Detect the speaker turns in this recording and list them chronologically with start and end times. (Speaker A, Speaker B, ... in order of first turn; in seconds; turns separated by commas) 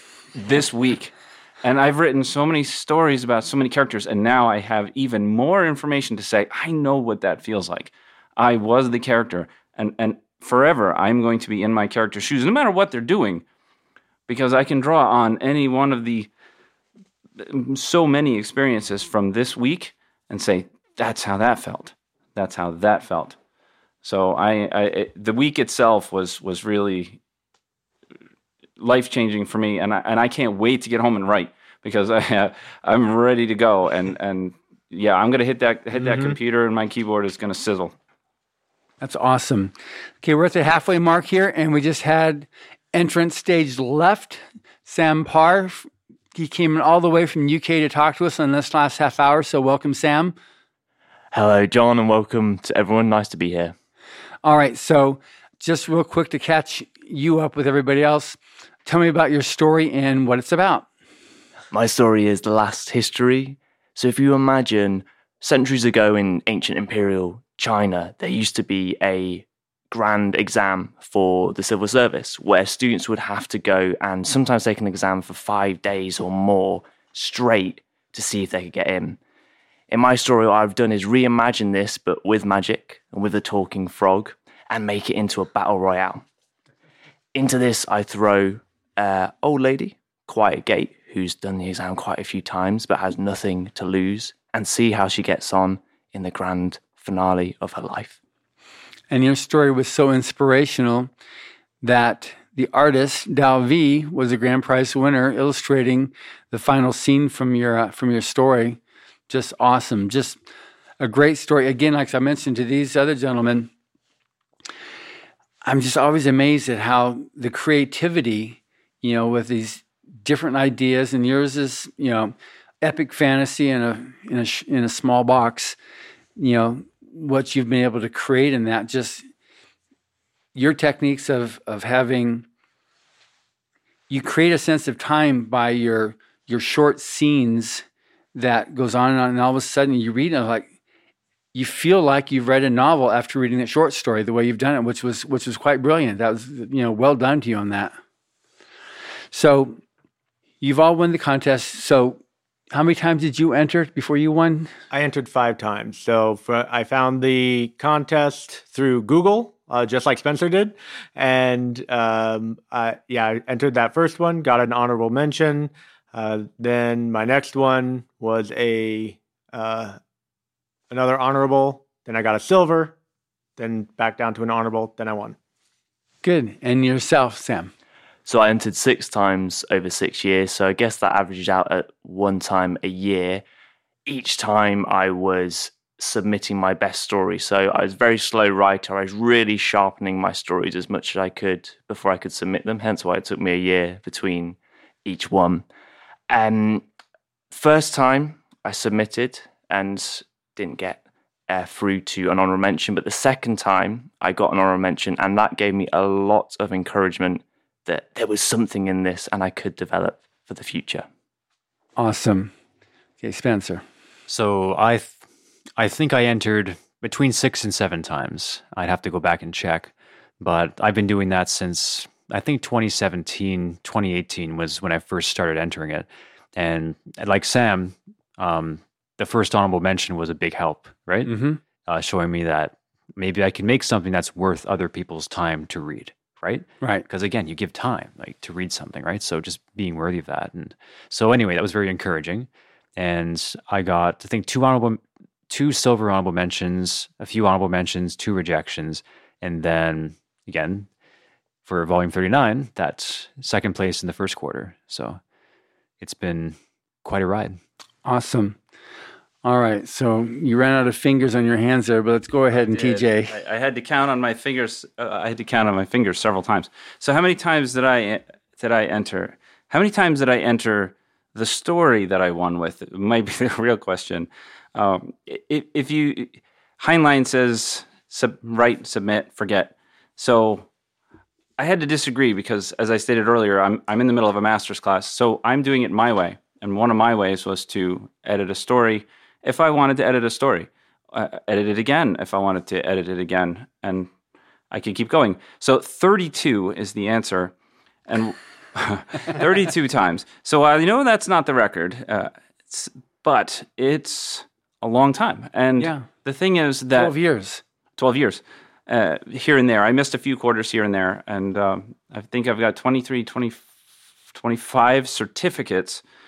Speaker A: 0.4-13.4, Speaker A: 14.3-16.3, Speaker A: 17.4-23.4, Speaker A: 24.0-27.2, Speaker A: 28.8-37.9, Speaker B: 36.0-36.4, Speaker C: 39.0-50.4, Speaker D: 51.3-53.7, Speaker C: 54.4-60.9, Speaker D: 61.7-79.2, Speaker D: 79.9-86.2, Speaker D: 87.3-98.2, Speaker C: 99.1-101.1, Speaker C: 101.8-110.4, Speaker C: 111.0-113.7, Speaker C: 115.6-125.8, Speaker C: 126.4-129.3, Speaker C: 130.6-132.5, Speaker C: 134.1-140.7, Speaker C: 141.5-148.0, Speaker C: 149.3-149.8, Speaker C: 150.6-152.2, Speaker C: 152.7-154.7, Speaker B: 154.9-170.0, Speaker B: 170.9-172.9, Speaker B: 173.6-175.4, Speaker C: 176.2-177.7, Speaker D: 178.3-183.4, Speaker D: 184.1-195.7, Speaker D: 196.3-196.8, Speaker D: 197.5-211.1, Speaker C: 212.0-212.5, Speaker C: 213.2-213.8, Speaker E: 214.3-215.2, Speaker E: 215.8-231.3, Speaker C: 231.2-231.6, Speaker E: 231.8-250.9, Speaker E: 251.7-255.2, Speaker E: 256.0-257.6, Speaker C: 258.1-258.6, Speaker C: 259.4-263.4, Speaker A: 262.7-280.7, Speaker A: 281.6-294.1, Speaker A: 294.7-297.5, Speaker A: 298.1-307.1, Speaker C: 305.8-306.1, Speaker C: 306.9-307.6, Speaker A: 308.0-313.6, Speaker A: 314.3-316.0